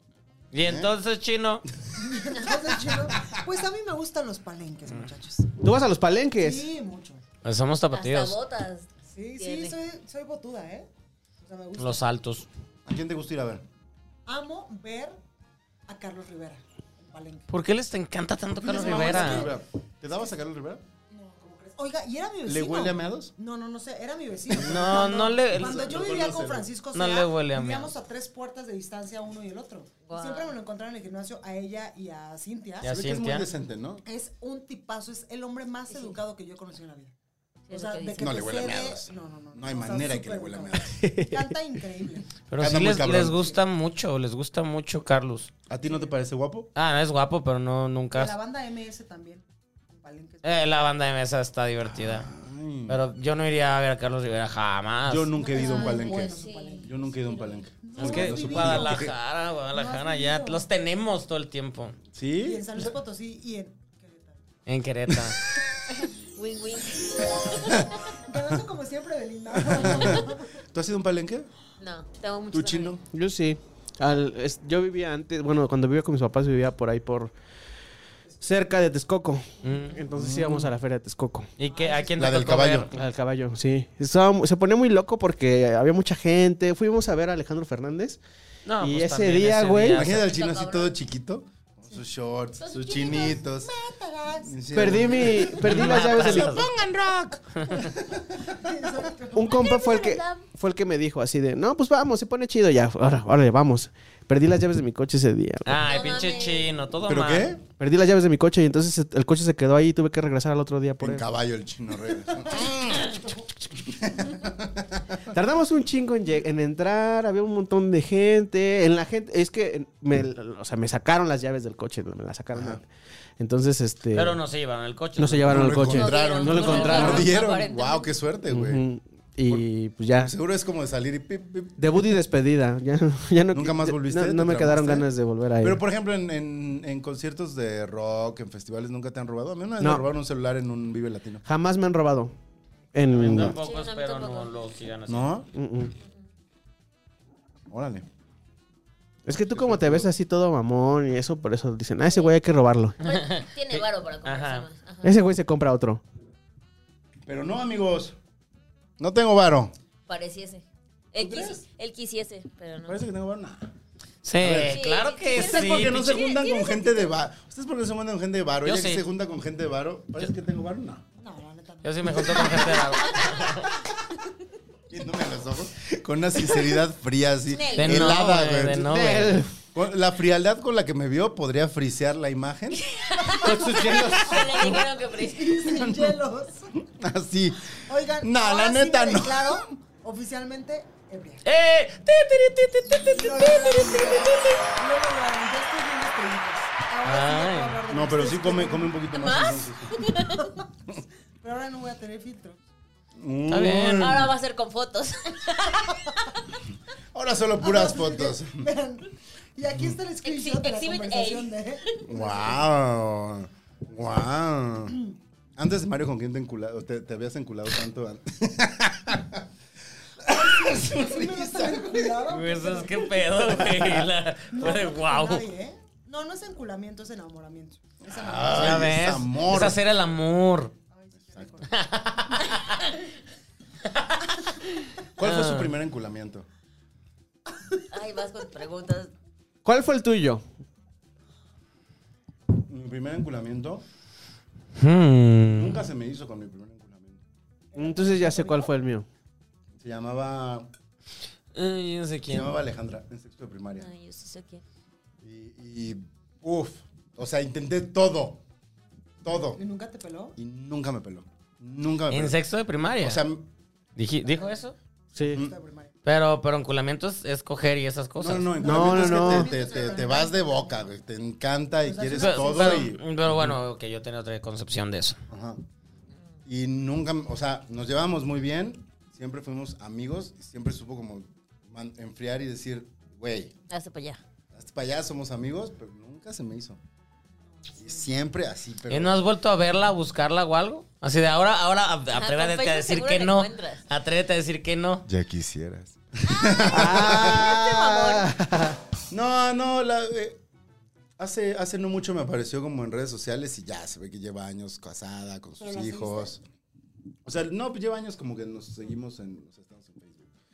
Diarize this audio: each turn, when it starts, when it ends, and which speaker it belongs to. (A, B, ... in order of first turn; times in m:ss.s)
0:00.5-0:01.6 A
0:00.6-0:00.9 B
0:02.0-0:05.5 C
0:02.8-0:03.4 B
0:05.6-0:06.6 D
0:06.4-0:07.2 C
0:07.4-0:08.4 A
0:07.9-0:09.8 E
0:09.1-0:10.9 C
0:11.4-0:12.0 C
0:11.8-0:12.5 A
0:12.8-0:13.6 B
0:14.2-0:15.2 C
0:15.9-0:17.4 C
0:17.5-0:19.5 A
0:18.6-0:20.8 B
0:18.6-0:19.6 C
0:21.1-0:32.9 C
0:22.4-0:23.3 B
0:24.6-0:25.9 A
0:24.7-0:26.7 B
0:26.9-0:27.9 A
0:30.0-0:30.5 E
0:32.8-0:33.4 A
0:32.8-0:34.0 B
0:34.0-0:37.1 C
0:35.9-0:36.1 E
0:37.7-0:38.4 E
0:37.7-0:42.3 C
0:38.2-0:41.0 B
0:41.0-0:41.5 D
0:42.5-0:45.5 A
0:42.6-0:43.6 B
0:45.7-0:46.7 B
0:46.8-0:48.3 A
0:48.1-0:50.9 C
0:50.4-0:52.3 A
0:51.8-0:53.0 B
0:52.9-0:55.4 A
0:55.1-0:59.1 B
0:55.4-0:57.0 C
0:55.5-0:57.6 E
0:57.8-0:59.1 C
0:58.0-1:02.0 A
0:59.7-1:00.6 C
1:02.1-1:02.9 B
1:02.4-1:04.4 C
1:04.7-1:05.5 A
1:05.9-1:07.8 E
1:08.1-1:10.5 C
1:09.7-1:11.5 B
1:11.8-1:13.0 E
1:12.5-1:13.0 B
1:13.1-1:17.3 D
1:18.4-1:21.5 D
1:19.6-1:20.0 A
1:20.1-1:20.7 B
1:21.6-1:22.9 A
1:21.7-1:22.2 C
1:22.2-1:22.9 B
1:22.9-1:28.2 D
1:28.6-1:30.3 A
1:28.8-1:30.1 D
1:29.9-1:33.7 B
1:30.2-1:31.0 E
1:32.6-1:33.4 E
1:32.9-1:35.6 C
1:34.4-1:38.4 B
1:34.7-1:36.6 D
1:35.6-1:36.7 A
1:37.5-1:37.9 A
1:38.4-1:39.7 C
1:39.3-1:45.8 D
1:39.4-1:40.4 E
1:45.6-1:47.5 A
1:45.8-1:46.7 E
1:47.0-1:47.6 B
1:47.8-1:51.2 D
1:51.0-1:55.2 B
1:52.4-1:53.5 C
1:55.3-2:02.9 D
2:02.5-2:02.8 B
2:03.4-2:04.4 D
2:04.1-2:07.3 A
2:05.2-2:07.3 D
2:05.5-2:08.8 B
2:05.9-2:08.1 E
2:08.5-2:10.3 D
2:10.2-2:11.9 B
2:11.8-2:15.8 D
2:13.5-2:15.1 B
2:15.6-2:21.4 B
2:19.8-2:20.0 D
2:21.4-2:22.3 D
2:22.9-2:23.5 D
2:23.1-2:25.3 A
2:23.1-2:23.5 B
2:23.4-2:24.7 E
2:25.1-2:25.5 B
2:25.5-2:25.9 D
2:27.7-2:28.0 B
2:29.2-2:33.0 D
2:29.5-2:30.1 B
2:32.1-2:32.3 E
2:33.0-2:35.2 E
2:33.0-2:34.6 A
2:35.0-2:36.0 D
2:37.2-2:38.2 B
2:39.0-2:39.7 B
2:40.1-2:43.0 E
2:41.2-2:41.6 B
2:42.8-2:43.7 B
2:44.2-2:46.2 A
2:44.4-2:44.8 B
2:44.7-2:47.2 E
2:45.3-2:51.0 B
2:48.6-2:49.0 A
2:51.2-2:53.8 C
2:51.8-2:53.7 A
2:53.0-2:53.5 E
2:54.9-2:59.1 B
2:57.5-2:58.2 E
2:57.8-2:59.4 A
2:58.7-2:59.5 D
2:59.7-3:02.8 B
3:02.7-3:05.8 E
3:03.4-3:04.3 D
3:03.5-3:06.7 C
3:03.5-3:04.4 B
3:05.7-3:06.2 B
3:06.8-3:09.6 B
3:07.9-3:11.4 C
3:11.4-3:14.7 A
3:12.9-3:19.0 C
3:17.0-3:17.8 A
3:17.9-3:20.0 B
3:19.1-3:20.5 E
3:20.4-3:20.6 C
3:21.4-3:22.6 C
3:23.2-3:24.3 B
3:23.5-3:24.2 A
3:24.0-3:26.4 E
3:25.8-3:26.2 C
3:27.1-3:28.7 B
3:27.6-3:32.6 C
3:30.2-3:32.0 E
3:32.0-3:35.0 B
3:35.6-3:39.4 B
3:40.2-3:42.2 B
3:40.3-3:43.6 C
3:42.3-3:45.4 A
3:43.5-3:44.1 B
3:44.5-3:48.9 C
3:48.0-3:49.8 B
3:48.5-3:50.7 A
3:50.9-3:51.7 C
3:51.7-3:52.9 A
3:53.9-3:55.7 A
3:55.2-3:56.5 B
3:57.9-3:59.1 E
3:59.6-4:00.4 D
4:02.5-4:03.8 B
4:04.8-4:05.8 A
4:05.5-4:07.2 B
4:07.7-4:08.7 C
4:07.8-4:09.0 D
4:09.8-4:10.7 B
4:11.5-4:12.5 A
4:12.3-4:13.9 B
4:13.8-4:14.6 E
4:15.2-4:18.4 B
4:19.2-4:19.6 B
4:19.3-4:20.3 C
4:20.4-4:22.4 B
4:22.1-4:23.2 A
4:23.0-4:23.5 B
4:24.0-4:24.8 A
4:25.2-4:25.4 D
4:25.2-4:25.9 C
4:26.0-4:28.6 A
4:28.2-4:33.5 B
4:28.6-4:30.9 C
4:28.6-4:29.5 D
4:31.8-4:32.9 C
4:32.1-4:35.2 A
4:35.3-4:35.6 B
4:36.4-4:43.5 B
4:43.7-4:44.2 E
4:44.5-4:46.8 B
4:47.5-4:48.1 C
4:47.8-4:49.2 B
4:48.9-4:55.0 A
4:52.1-4:53.8 E
4:55.1-4:57.6 B
4:56.6-4:58.8 D
4:56.6-4:58.3 E
4:59.1-5:00.4 B
5:01.2-5:06.4 B
5:05.6-5:06.4 C
5:07.2-5:10.3 B